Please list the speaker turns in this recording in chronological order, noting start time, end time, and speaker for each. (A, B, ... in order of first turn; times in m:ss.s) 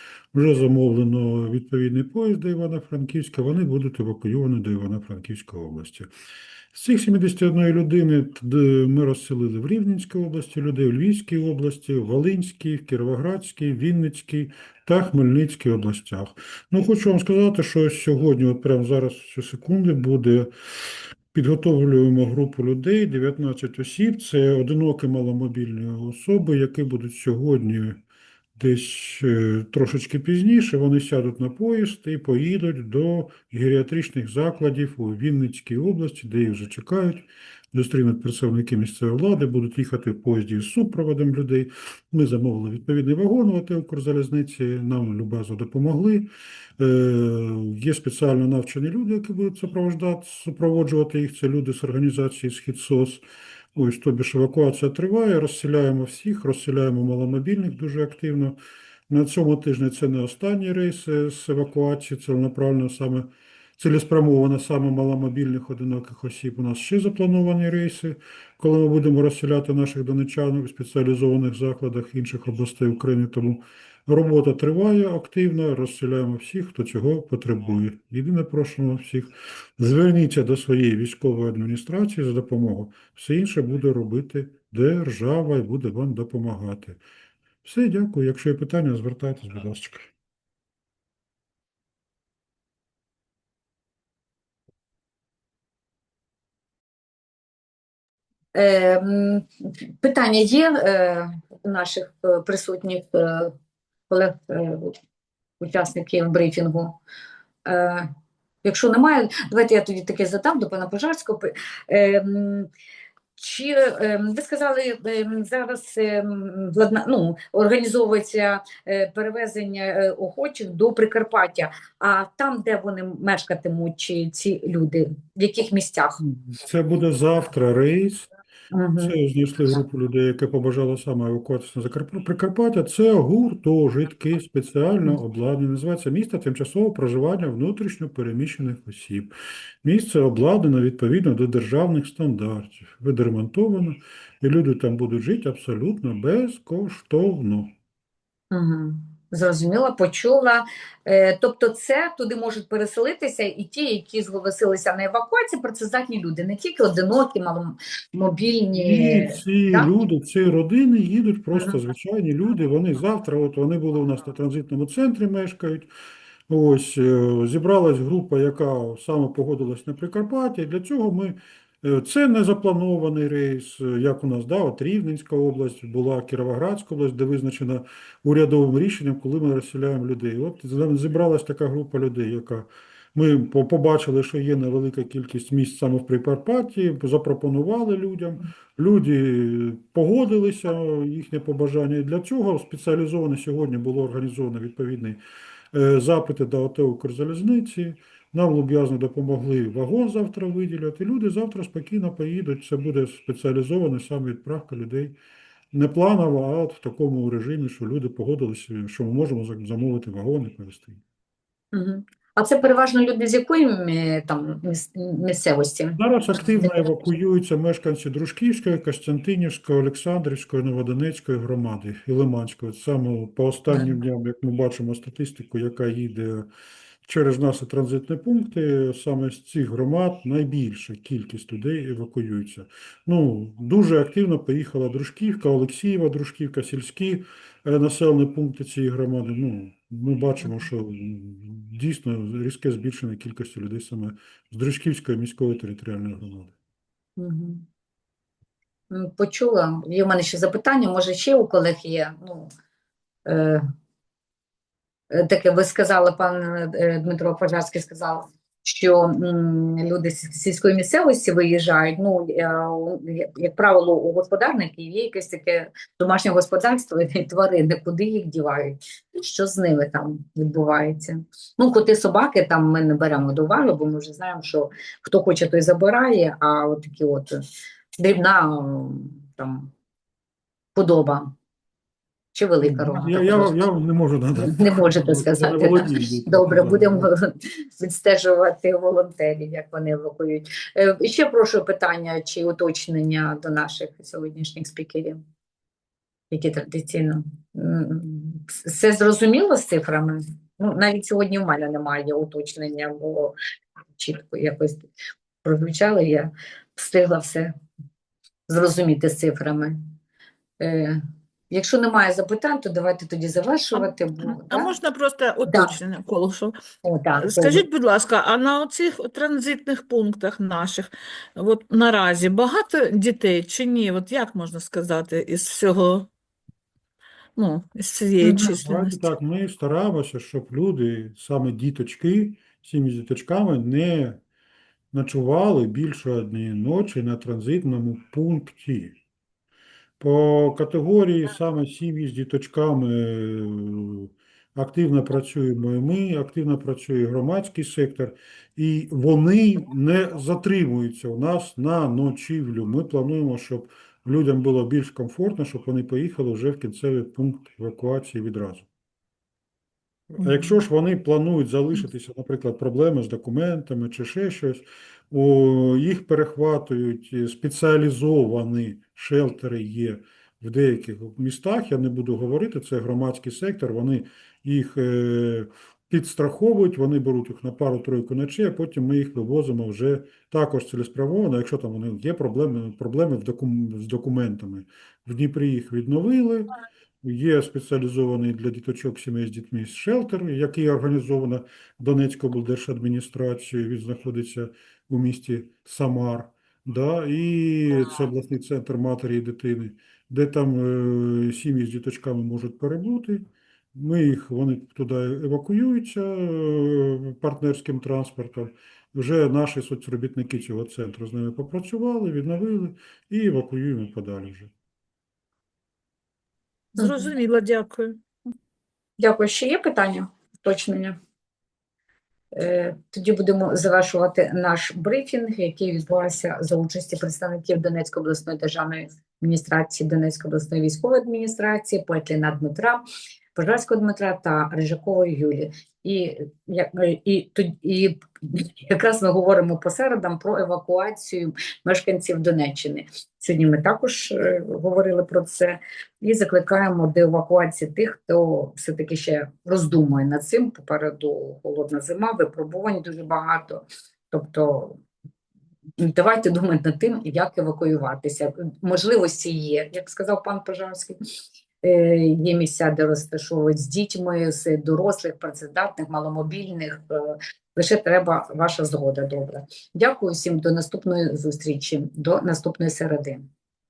0:00.3-0:06.1 A
0:06.7-0:20.5 A
0:21.3-0:28.0 A
0:28.6-0:53.2 A
0:53.8-0:58.6 A
0:59.1-1:27.0 A
1:27.6-1:30.1 A
1:38.5-1:39.4 B
1:40.0-1:43.5 B
1:44.1-1:45.0 B
1:45.6-1:47.0 B
1:47.7-1:48.1 B
1:48.6-1:52.7 B
1:53.4-2:06.2 B
2:06.5-2:08.3 A
2:08.7-2:09.2 B
2:09.0-2:27.7 A
2:28.5-2:39.9 B
2:38.8-2:45.9 A
2:46.5-3:15.2 A
3:15.7-3:25.2 A
3:25.7-3:31.0 A
3:31.7-3:36.9 B
3:36.0-3:46.5 A
3:47.1-4:06.5 A
4:07.2-4:07.6 B
4:08.9-4:12.5 B
4:13.3-4:13.6 B
4:15.1-4:37.4 B
4:38.0-4:39.7 B
4:40.8-4:41.3 B
4:42.3-4:43.6 B
4:42.6-4:47.1 A
4:44.4-4:55.2 B
4:56.3-5:03.4 B
5:04.0-5:04.9 B
5:05.4-5:07.5 B
5:08.5-5:09.8 B
5:10.6-5:11.0 B
5:11.5-5:14.7 B
5:13.7-5:16.6 C
5:15.5-5:15.8 B
5:16.8-5:17.6 B
5:17.2-5:26.1 C
5:27.4-5:29.1 C
5:28.3-5:34.2 A
5:34.9-5:39.0 A
5:40.0-5:58.7 A
6:00.1-6:26.5 A
6:00.2-6:00.6 B
6:27.0-6:54.5 A
6:56.7-6:58.1 C
6:59.0-7:01.0 B
7:02.3-7:12.8 B
7:13.4-7:34.8 B
7:35.8-7:41.0 B
7:41.6-7:53.2 B